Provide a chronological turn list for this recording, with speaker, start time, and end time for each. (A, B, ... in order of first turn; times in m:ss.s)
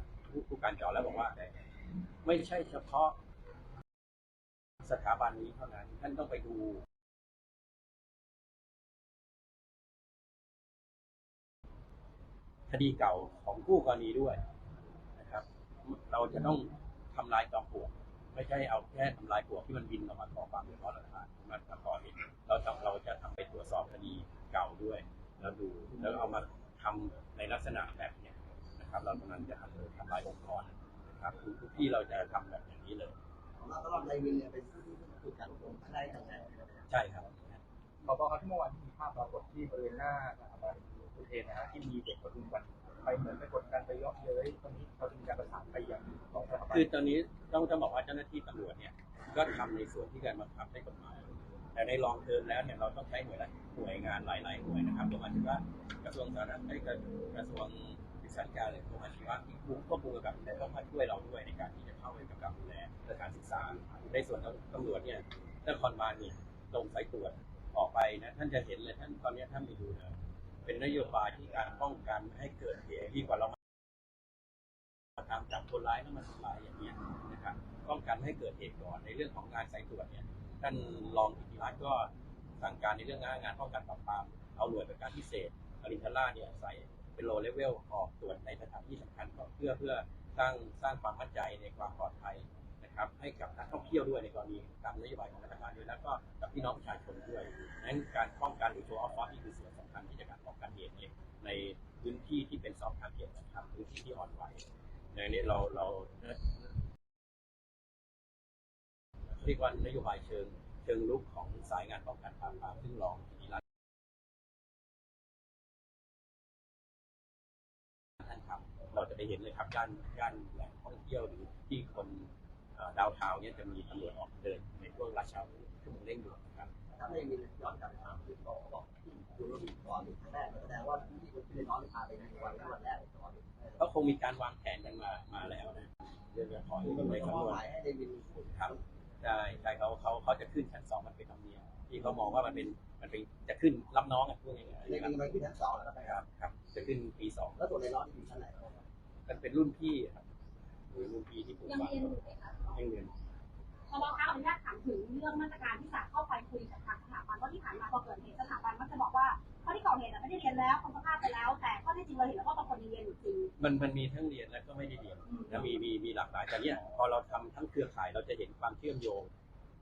0:00.2-0:01.4 A
0:02.2-0:03.2 A
0:04.8-0:06.8 A
0:12.7-0:14.4 A
0:15.2-0:33.2 A
0:33.6-0:36.8 B
0:36.9-0:37.6 A
0:38.0-0:46.9 C
0:46.7-1:13.6 A
1:15.2-1:46.8 A
1:49.3-1:53.6 A
1:58.2-2:06.7 A
2:06.9-2:13.8 B
2:13.8-2:17.6 A
2:16.8-2:18.3 B
2:18.3-2:25.1 A
2:24.9-2:26.2 B
2:26.0-2:27.6 A
2:27.6-2:28.8 B
2:29.2-2:30.2 A
2:30.9-2:33.1 A
2:31.7-2:32.8 D
2:33.9-2:43.5 D
2:43.6-2:49.3 A
2:45.3-2:45.7 D